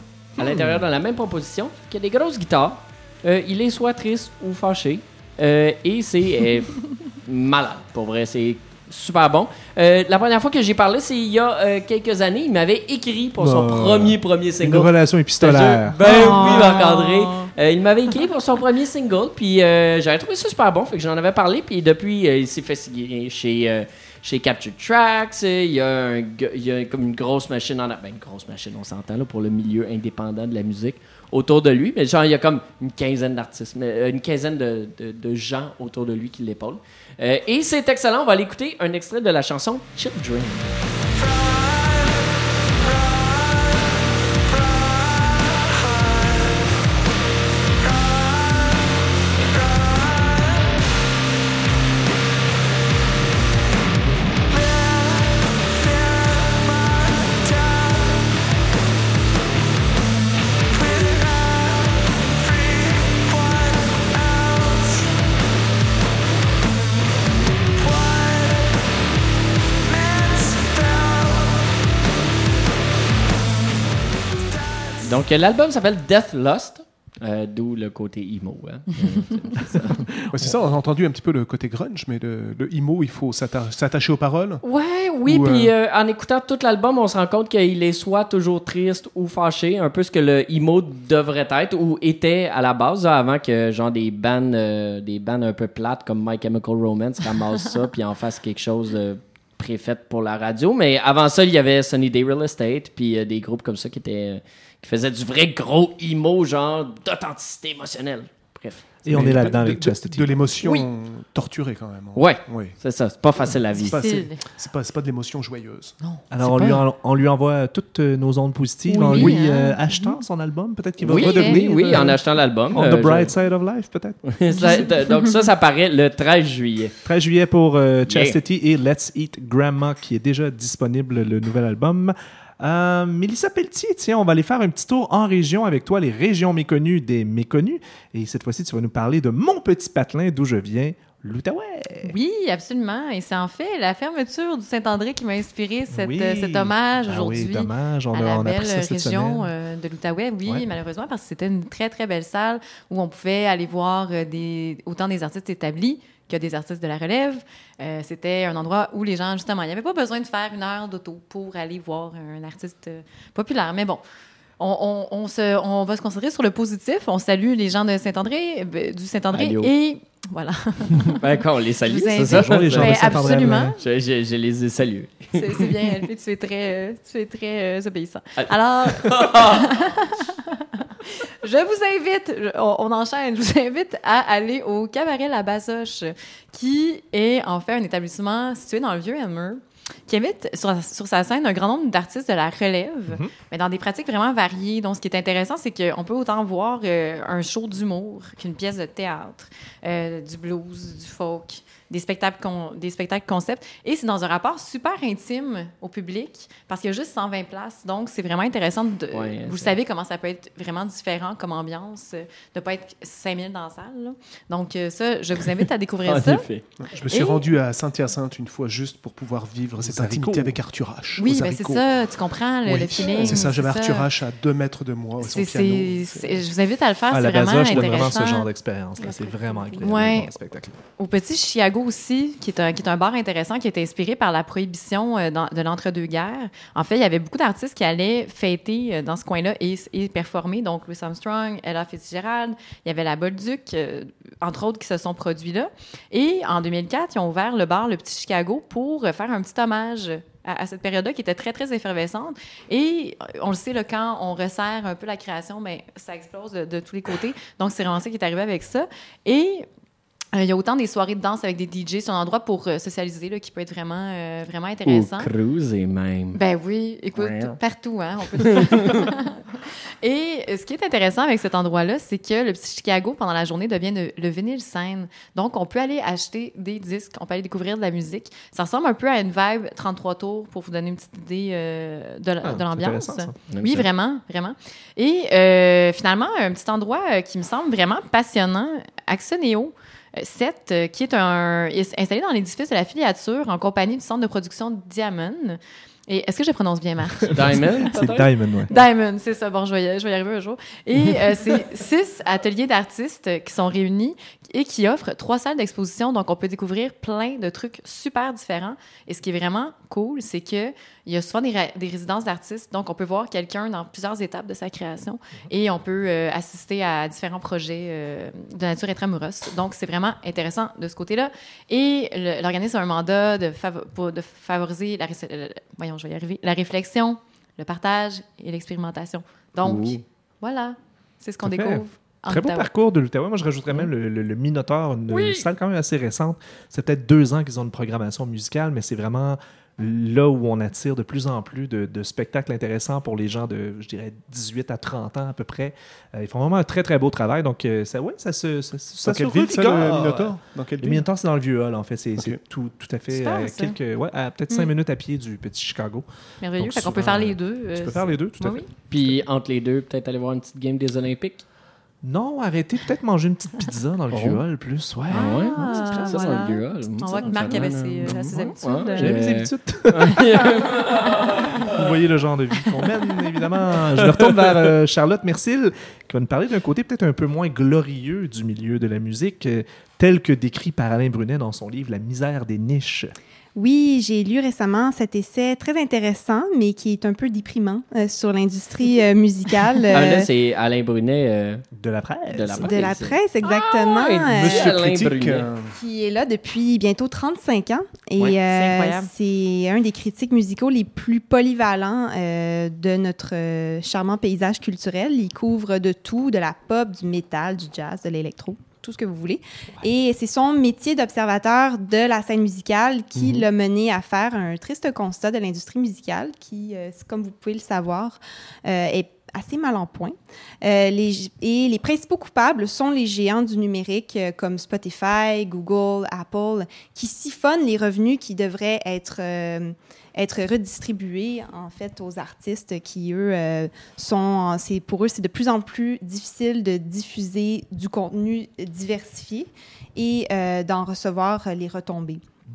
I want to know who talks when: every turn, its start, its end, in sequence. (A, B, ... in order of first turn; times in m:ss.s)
0:00.4-0:40.7 A
0:00.4-0:00.8 B
0:13.4-0:16.4 B
0:16.0-0:17.5 C
1:15.0-1:20.1 A
1:20.3-1:24.6 D
1:24.6-1:48.9 A
1:25.2-1:25.7 D
1:49.1-1:50.4 B
1:49.1-1:52.8 D
1:52.2-1:54.0 A
1:53.4-1:56.0 D
1:53.8-1:54.4 C
1:56.0-1:56.8 C
1:56.3-2:04.2 B
1:58.9-2:00.2 C
2:01.0-2:03.3 A
2:01.1-2:01.6 C
2:04.2-2:06.9 A
2:07.0-2:22.1 B
2:08.1-2:08.4 A
2:22.0-2:44.0 C
2:25.9-2:29.5 B
2:44.6-2:51.2 C
2:49.3-2:49.7 A
2:51.1-2:55.7 A
2:51.9-2:53.8 C
2:52.2-2:53.7 B
2:55.3-3:36.5 C
2:58.4-2:59.7 A
3:29.1-3:29.8 A
3:36.1-3:36.6 A
3:36.8-3:42.0 D
3:37.1-3:37.4 C
3:39.8-3:40.6 B
3:41.2-3:44.1 C
3:42.6-3:46.4 D
3:45.2-3:48.5 C
3:47.1-3:50.8 B
3:47.8-3:48.1 D
3:49.0-3:49.9 E
3:49.8-3:50.3 C
3:51.0-4:19.7 C
4:20.3-4:25.3 C
4:24.9-4:26.4 A
4:26.4-4:29.4 C
4:27.2-4:27.6 A
4:28.4-4:29.1 A
4:30.0-4:57.9 C
4:42.4-4:43.4 B
4:43.5-4:43.9 A
4:57.3-4:58.3 A
4:57.9-4:58.7 B
4:58.7-5:32.7 C
5:29.6-5:30.0 A
5:31.4-5:56.1 B
5:35.1-5:35.5 A
5:49.0-5:51.0 D
5:53.1-5:53.8 C
5:56.4-5:58.7 C
5:56.6-5:59.2 B
5:58.9-6:01.4 A
6:02.0-6:06.5 B
6:04.1-6:04.4 A
6:05.1-6:11.9 A
6:05.1-6:09.2 C
6:07.4-6:08.5 D
6:09.0-6:10.5 B
6:11.6-6:23.2 B
6:14.0-6:14.7 A
6:23.6-6:30.3 E
6:29.9-6:31.6 A
6:31.8-6:32.8 B
6:32.3-6:35.5 A
6:32.6-6:34.7 E
6:34.3-6:35.7 D
6:35.7-7:22.2 E
6:38.4-6:39.1 C
6:53.2-6:53.5 D